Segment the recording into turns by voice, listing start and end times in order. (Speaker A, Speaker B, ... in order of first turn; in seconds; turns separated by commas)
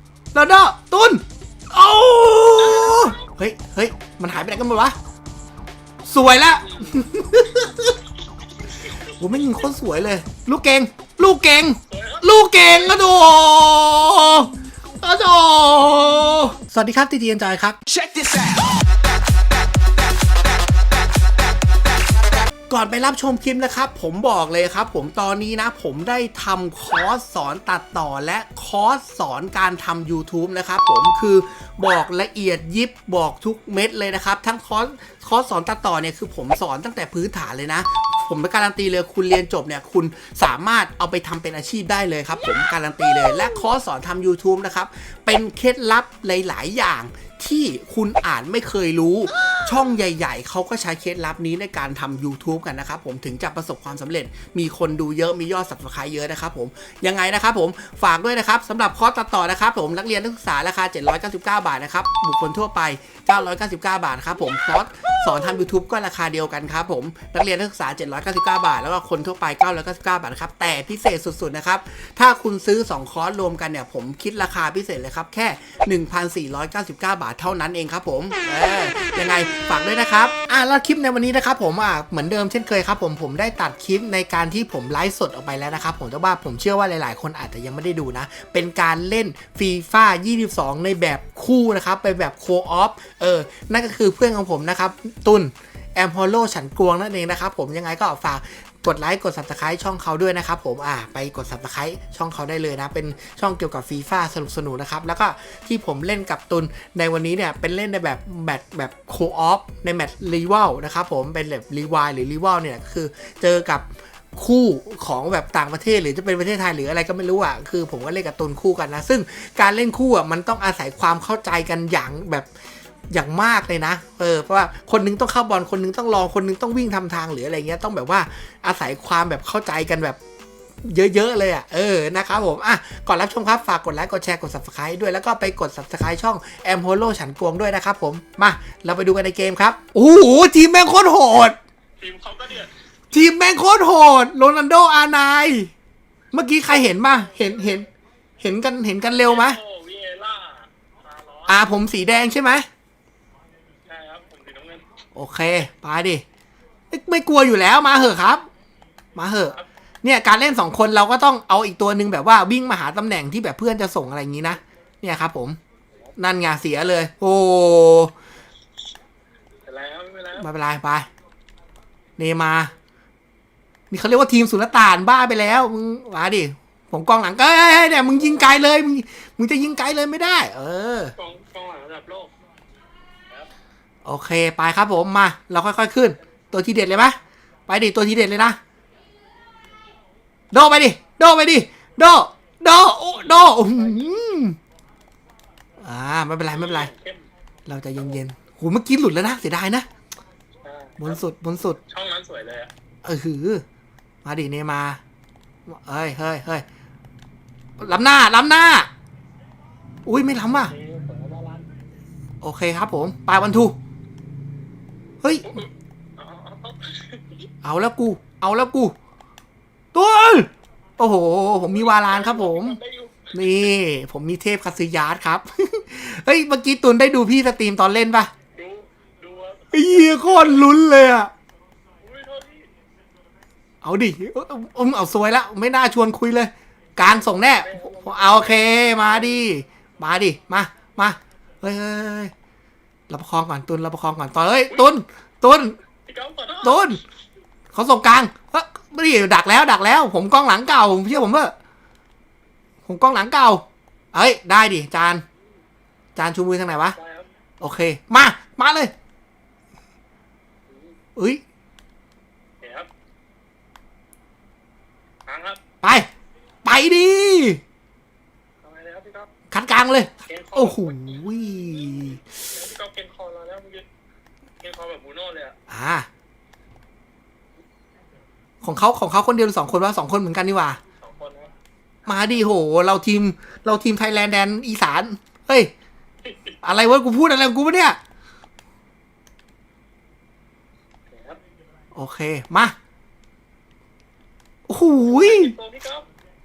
Speaker A: 0.3-5.0, Speaker B: 2.6-3.3, Speaker A: 6.0-8.0, Speaker B: 6.6-7.0, Speaker A: 9.1-17.8, Speaker B: 11.9-13.5, Speaker A: 22.7-122.5, Speaker A: 123.1-130.2, Speaker A: 130.8-141.6, Speaker B: 142.0-142.7, Speaker A: 143.1-145.7, Speaker A: 146.3-147.9, Speaker B: 146.7-147.8, Speaker A: 148.4-149.6, Speaker B: 149.1-151.7, Speaker A: 151.5-152.7, Speaker B: 153.8-154.9, Speaker A: 155.2-156.2, Speaker A: 156.9-158.5, Speaker A: 159.2-165.6, Speaker A: 166.2-168.1, Speaker B: 169.7-170.5, Speaker A: 170.4-171.1, Speaker A: 172.2-172.7, Speaker A: 173.9-181.2, Speaker B: 181.2-182.3, Speaker A: 184.1-187.2, Speaker A: 187.7-188.6, Speaker A: 190.5-194.6, Speaker B: 193.3-194.1, Speaker A: 195.8-196.9, Speaker B: 196.5-197.2, Speaker A: 197.7-199.9, Speaker B: 200.6-201.2, Speaker A: 201.0-201.8, Speaker B: 201.8-202.7, Speaker A: 203.0-203.6, Speaker A: 204.2-205.0, Speaker A: 205.7-206.7, Speaker A: 207.8-208.9, Speaker A: 210.1-210.7, Speaker B: 210.5-211.7, Speaker A: 212.4-213.8, Speaker A: 215.2-215.6, Speaker B: 215.4-217.5, Speaker A: 217.6-218.9, Speaker A: 219.9-222.8, Speaker B: 221.7-223.7, Speaker A: 223.3-228.3, Speaker B: 228.6-230.7, Speaker A: 229.7-231.3, Speaker B: 232.0-232.7, Speaker A: 233.8-242.3, Speaker B: 237.0-239.5, Speaker A: 243.1-245.8, Speaker B: 246.1-246.9, Speaker A: 246.6-247.0, Speaker A: 247.7-251.5, Speaker A: 252.8-255.2, Speaker A: 256.2-257.0, Speaker B: 256.8-257.3, Speaker A: 257.6-258.9, Speaker B: 260.7-261.0, Speaker A: 261.2-261.4, Speaker B: 262.6-262.9, Speaker B: 265.3-265.6, Speaker A: 265.8-266.1, Speaker A: 266.6-267.6, Speaker B: 268.6-269.3, Speaker A: 269.5-272.2, Speaker B: 270.3-271.1, Speaker B: 272.5-273.9, Speaker B: 274.6-275.6, Speaker A: 275.7-276.1, Speaker A: 278.6-280.8, Speaker B: 281.0-281.5, Speaker A: 282.1-285.7, Speaker B: 286.3-286.6, Speaker A: 286.6-288.0, Speaker B: 291.1-291.4, Speaker A: 291.9-292.8, Speaker A: 294.7-295.6, Speaker B: 295.1-296.1